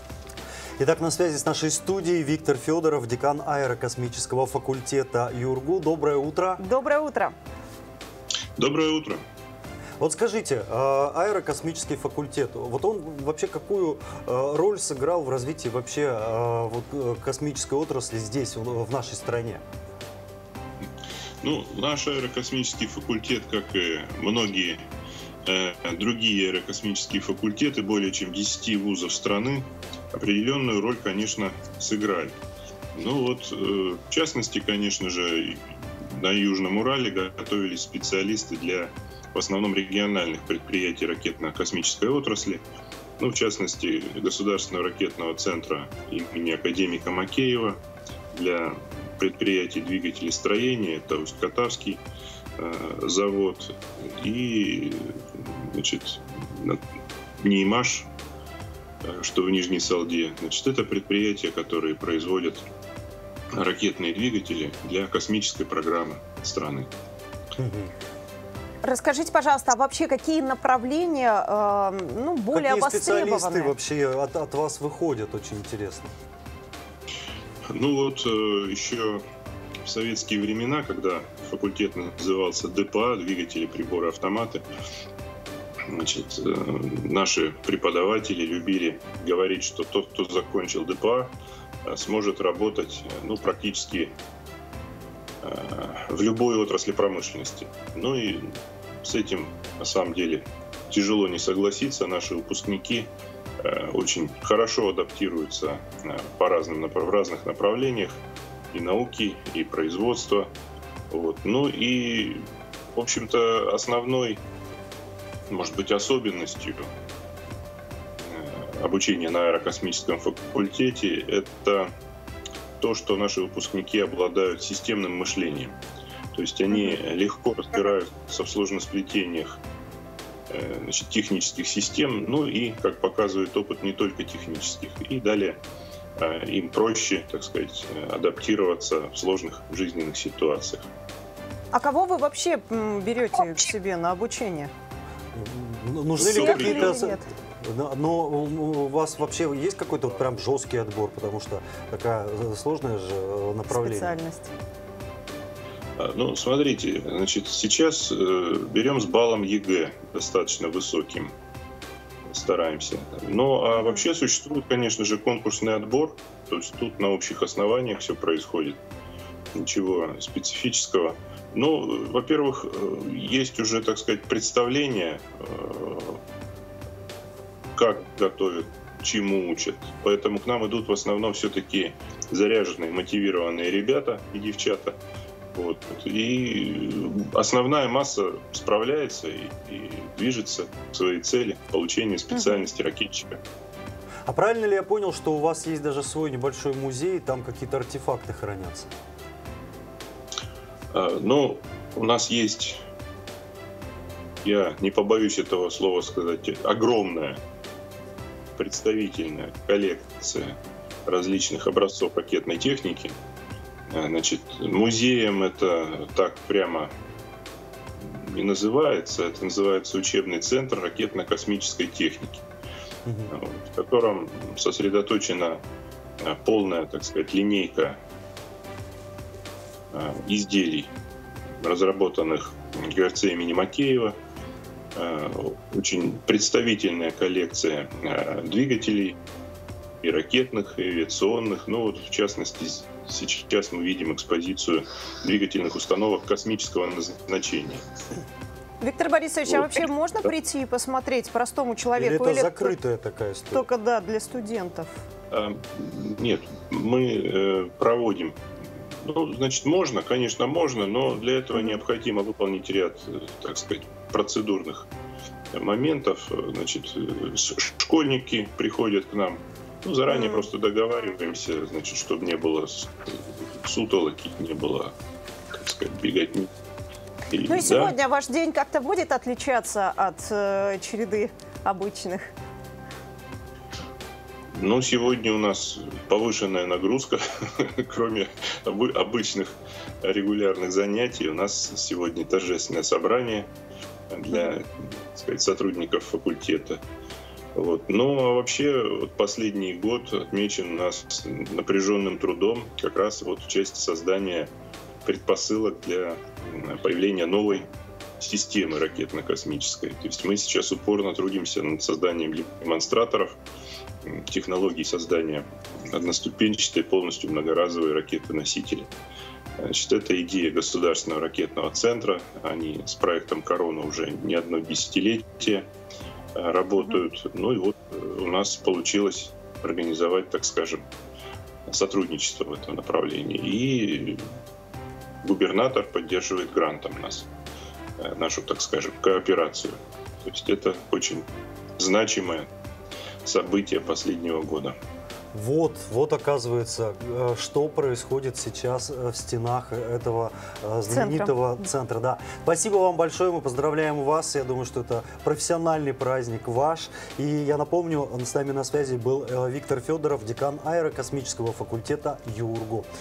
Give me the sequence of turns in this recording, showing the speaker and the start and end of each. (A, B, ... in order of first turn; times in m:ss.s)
0:00.8-0:06.6 A
0:06.6-0:07.4 B
0:08.6-0:09.2 C
0:10.0-0:19.6 A
0:21.4-0:24.8 C
0:25.5-0:32.4 C
0:33.0-0:42.6 C
0:43.2-0:47.8 C
0:48.3-0:52.0 C
0:52.6-0:56.8 C
0:57.4-0:58.1 C
0:59.0-1:02.6 C
1:03.6-1:06.9 C
1:07.6-1:07.9 A
1:08.8-1:13.7 B
1:12.5-1:16.1 A
1:17.7-1:19.2 C
1:19.8-1:24.6 C
1:25.9-1:31.3 C
1:31.9-1:34.1 C
1:35.4-1:43.1 C
1:43.6-1:48.2 C
1:48.7-1:50.5 C
1:51.1-1:54.4 C
1:55.5-1:56.9 C
1:58.2-2:01.9 C
2:02.8-2:05.8 C
2:06.4-2:09.6 C
2:10.5-2:15.6 C
2:16.2-2:20.9 C
2:21.7-2:24.7 B
2:25.3-2:34.2 A
2:26.2-2:27.1 C
2:26.2-2:27.3 B
2:33.7-2:34.5 B
2:36.0-2:41.3 C
2:42.3-2:48.8 C
2:43.8-2:44.0 B
2:49.6-2:56.2 C
2:57.8-3:05.0 C
3:05.5-3:13.4 C
3:12.3-3:12.7 B
3:14.3-3:18.9 A
3:20.9-3:22.8 C
3:24.4-3:27.4 C
3:28.6-3:33.2 C
3:33.9-3:36.9 C
3:38.0-3:42.4 C
3:43.0-3:43.3 A
3:43.3-3:45.6 C
3:46.2-3:48.0 C
3:49.9-3:50.9 C
3:51.6-3:54.2 C
3:55.0-3:59.2 C
4:00.0-4:07.8 C
4:08.8-4:12.8 B
4:12.0-4:13.7 A
4:13.5-4:14.9 B
4:15.3-4:18.4 C
4:19.0-4:24.9 C
4:25.5-4:34.9 C
4:30.1-4:30.5 B
4:35.5-4:36.5 C
4:37.3-4:38.0 C
4:37.5-4:42.3 B
4:44.6-4:53.5 C
4:54.1-4:56.8 C
4:57.6-5:04.5 C
5:05.0-5:07.7 C
5:08.2-5:13.4 C
5:14.0-5:18.9 C
5:19.6-5:25.7 C
5:26.4-5:30.8 C
5:31.7-5:34.2 C
5:35.2-5:37.3 C
5:38.0-5:41.2 C
5:41.8-5:42.5 C
5:43.2-5:44.8 C
5:45.3-6:02.9 A
5:50.9-5:51.4 B